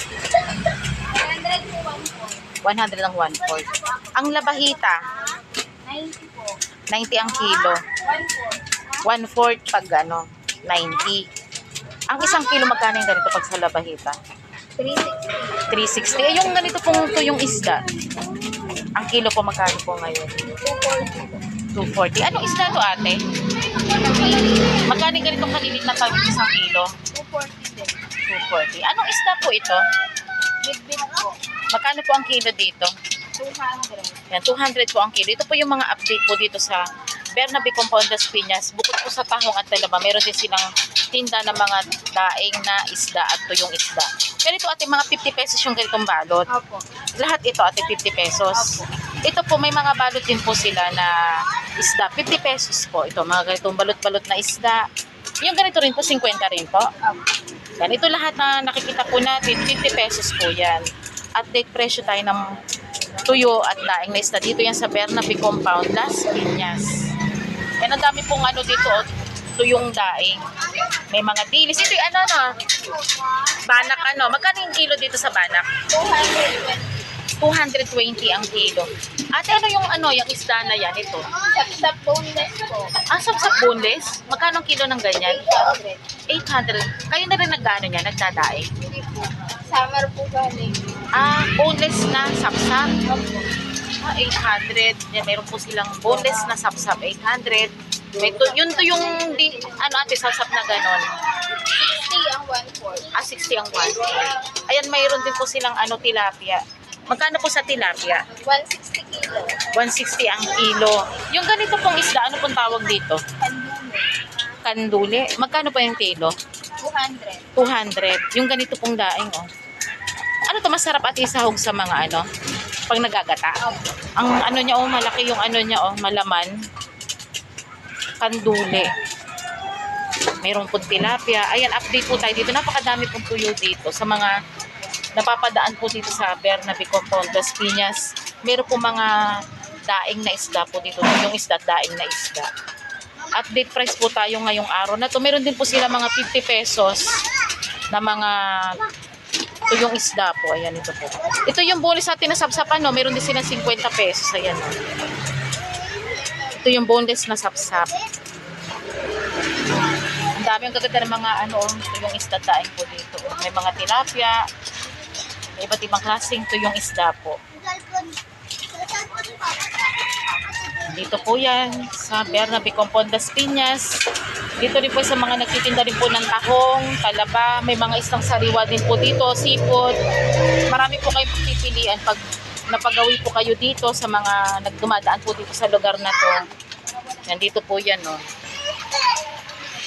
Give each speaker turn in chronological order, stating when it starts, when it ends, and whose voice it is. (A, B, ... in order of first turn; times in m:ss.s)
0:00.9-0:02.5 A
0:02.6-0:05.0 B
0:05.8-0:06.6 A
0:06.9-0:07.8 B
0:07.9-0:08.8 A
0:09.0-0:11.3 B
0:12.1-0:14.2 B
0:14.8-0:15.7 A
0:15.7-0:17.8 B
0:19.0-0:20.4 B
0:20.6-0:21.4 A
0:21.7-0:23.2 B
0:23.7-0:24.6 A
0:24.7-0:26.9 B
0:27.1-0:28.0 A
0:28.3-0:29.8 B
0:30.6-0:31.4 A
0:31.7-0:32.9 B
0:33.3-0:34.3 A
0:34.3-0:36.8 B
0:37.4-0:46.5 B
0:46.5-0:46.9 A
0:47.2-0:51.1 B
0:48.6-0:48.9 A
0:51.8-0:54.8 B
0:55.4-0:56.9 B
0:57.0-0:57.3 A
0:57.8-1:00.8 B
1:01.4-1:02.4 B
1:03.3-1:07.0 B
1:07.8-1:12.5 B
1:13.5-1:15.7 B
1:15.9-1:17.1 A
1:17.4-1:21.3 B
1:21.3-1:23.0 A
1:23.1-1:25.5 B
1:25.2-1:26.1 A
1:26.3-1:28.7 B
1:28.8-1:31.0 A
1:31.1-1:32.9 B
1:33.0-1:33.5 A
1:34.0-1:41.1 B
1:36.1-1:36.6 A
1:38.2-1:39.9 A
1:41.6-1:43.2 A
1:43.1-1:48.3 B
1:48.3-1:49.7 A
1:49.7-1:53.2 B
1:53.4-1:54.1 A
1:54.6-1:56.3 B
1:56.8-1:57.5 A
1:57.6-1:59.5 B
2:00.5-2:02.3 B
2:02.9-2:03.6 B
2:04.2-2:06.5 B
2:08.2-2:08.9 B
2:10.4-2:14.3 B
2:15.2-2:19.2 B
2:19.8-2:22.5 B
2:23.4-2:27.2 B
2:27.9-2:28.8 B
2:29.7-2:34.7 B
2:36.5-2:37.9 B
2:40.3-2:44.4 B
2:45.6-2:47.4 B
2:50.9-2:53.9 B
2:54.6-2:59.9 B
3:00.7-3:02.2 B
3:02.7-3:06.4 B
3:07.2-3:08.2 B